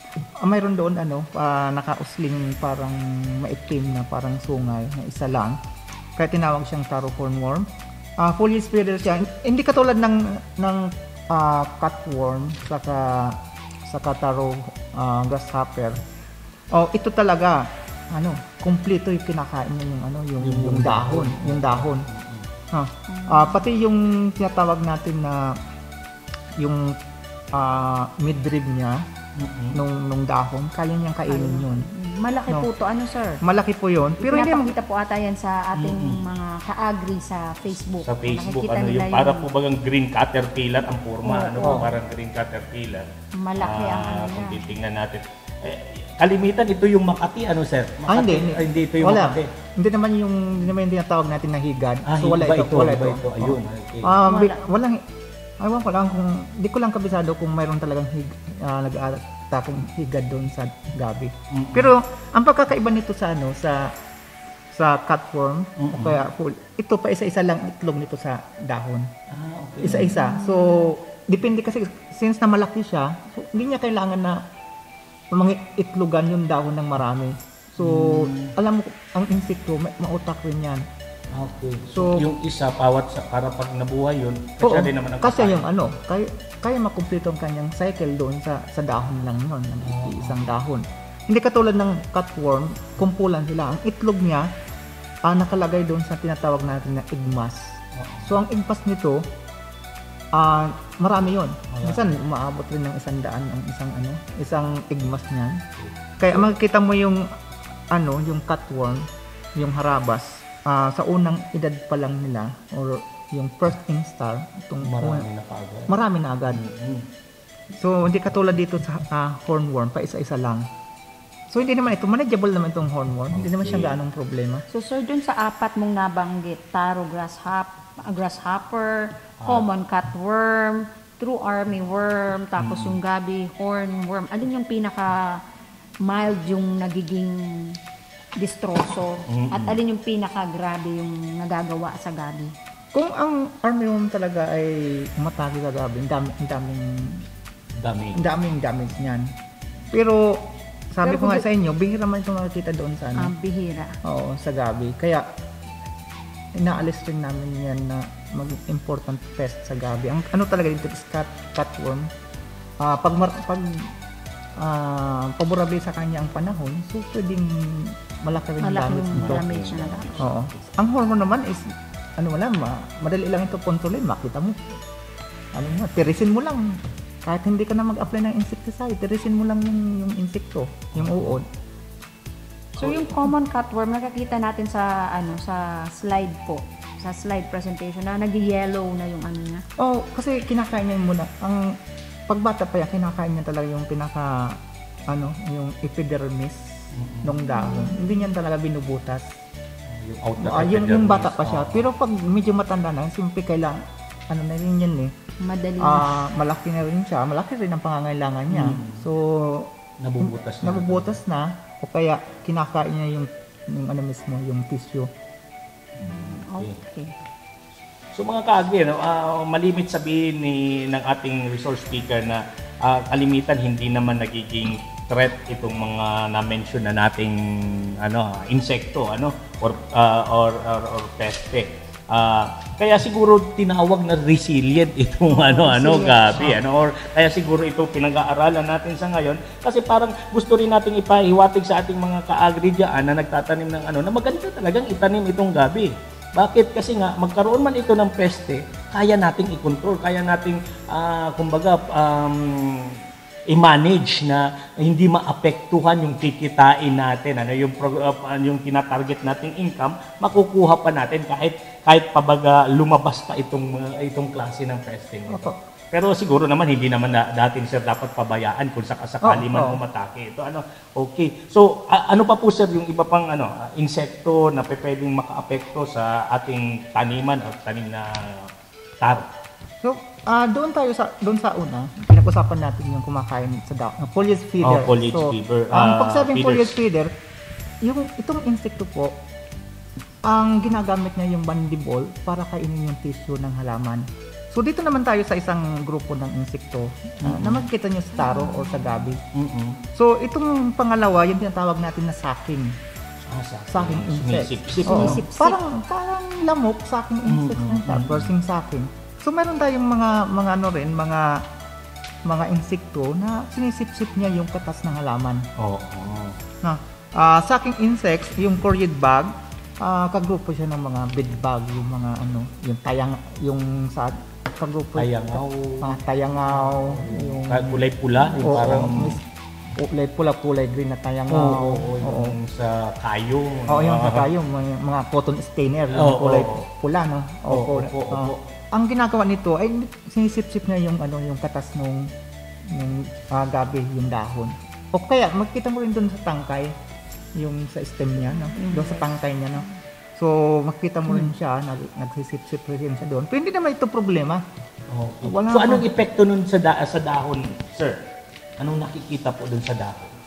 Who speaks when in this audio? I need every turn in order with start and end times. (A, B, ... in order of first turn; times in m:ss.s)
0:00.4-0:05.6 A
0:06.2-0:07.7 A
0:08.2-0:16.0 A
0:16.7-0:22.0 A
0:20.4-0:22.5 B
0:22.7-0:25.6 A
0:23.1-0:23.6 C
0:26.6-0:27.0 A
0:27.5-0:29.0 A
0:29.4-0:29.8 B
0:29.7-0:31.8 A
0:31.3-0:33.4 C
0:33.4-0:34.8 A
0:34.2-0:39.5 C
0:35.8-0:36.2 B
0:38.0-0:43.1 B
0:41.2-0:41.8 C
0:41.6-0:41.9 A
0:43.4-0:44.6 C
0:43.6-0:49.5 B
0:48.1-0:55.0 A
0:52.0-0:54.2 B
0:54.2-0:54.6 C
0:55.6-1:03.9 A
1:01.5-1:01.9 B
1:04.7-1:09.1 A
1:05.8-1:06.2 B
1:09.3-1:10.2 B
1:09.8-1:14.4 A
1:10.2-1:10.9 C
1:15.3-1:20.8 A
1:17.8-1:18.5 B
1:21.3-1:25.6 B
1:21.9-1:22.3 A
1:24.6-1:34.5 A
1:29.8-1:30.4 B
1:35.2-1:39.2 A
1:37.9-1:38.3 B
1:40.3-1:45.6 A
1:41.7-1:42.2 B
1:45.8-1:46.2 B
1:46.2-1:47.3 A
1:47.9-1:55.2 A
1:54.8-1:55.9 B
1:55.9-1:56.6 A
1:56.5-1:57.1 B
1:57.8-2:00.7 A
2:01.5-2:04.6 A
2:03.3-2:04.0 B
2:04.7-2:15.4 C
2:09.4-2:09.7 B
2:12.6-2:13.0 B
2:16.0-2:17.8 C
2:18.4-2:22.5 C
2:19.3-2:19.8 B
2:22.9-2:27.2 A
2:27.8-2:28.2 B
2:28.1-2:29.3 A
2:29.9-2:33.3 A
2:31.0-2:31.4 C
2:33.1-2:34.0 C
2:34.0-2:35.3 A
2:36.6-2:42.1 A
2:42.8-2:43.9 A
2:44.6-2:49.4 A
2:48.6-2:50.3 C
2:49.1-2:50.4 B
2:50.2-2:54.6 A
2:55.5-3:01.5 A
3:00.9-3:01.4 B
3:02.8-3:09.6 C
3:02.8-3:03.0 B
3:09.8-3:16.7 A
3:16.9-3:17.4 B
3:17.2-3:19.3 A
3:17.4-3:18.1 C
3:19.9-3:21.8 B
3:20.4-3:25.1 A
3:25.4-3:26.1 C
3:25.8-3:35.1 A
3:28.5-3:29.0 B
3:30.0-3:31.1 B
3:36.0-3:36.7 B
3:36.0-3:37.1 C
3:38.1-4:13.0 B
3:55.3-3:56.5 C
4:13.5-4:38.5 B
4:25.3-4:25.6 A
4:29.2-4:29.8 A
4:39.0-4:39.3 B
4:39.8-4:47.1 A
4:44.6-4:46.7 B
4:47.8-4:49.2 A
4:50.2-4:59.2 A
4:57.2-4:57.6 B
4:59.3-4:59.8 B
4:59.9-5:02.8 A
5:03.2-5:05.2 B
5:03.7-5:11.4 A
5:04.8-5:05.6 C
5:07.3-5:08.3 B
5:12.2-5:15.5 A
5:15.6-5:16.4 B
5:16.6-5:29.2 A
5:25.0-5:29.2 B
5:29.8-5:32.4 A
5:31.3-5:34.3 B
5:33.7-5:42.1 A
5:35.9-5:36.6 B
5:37.5-5:38.4 B
5:42.7-5:46.7 A
5:47.3-5:54.4 A
5:48.6-5:49.0 C
5:54.9-5:58.0 B
5:55.2-5:55.9 A
5:58.6-6:00.1 B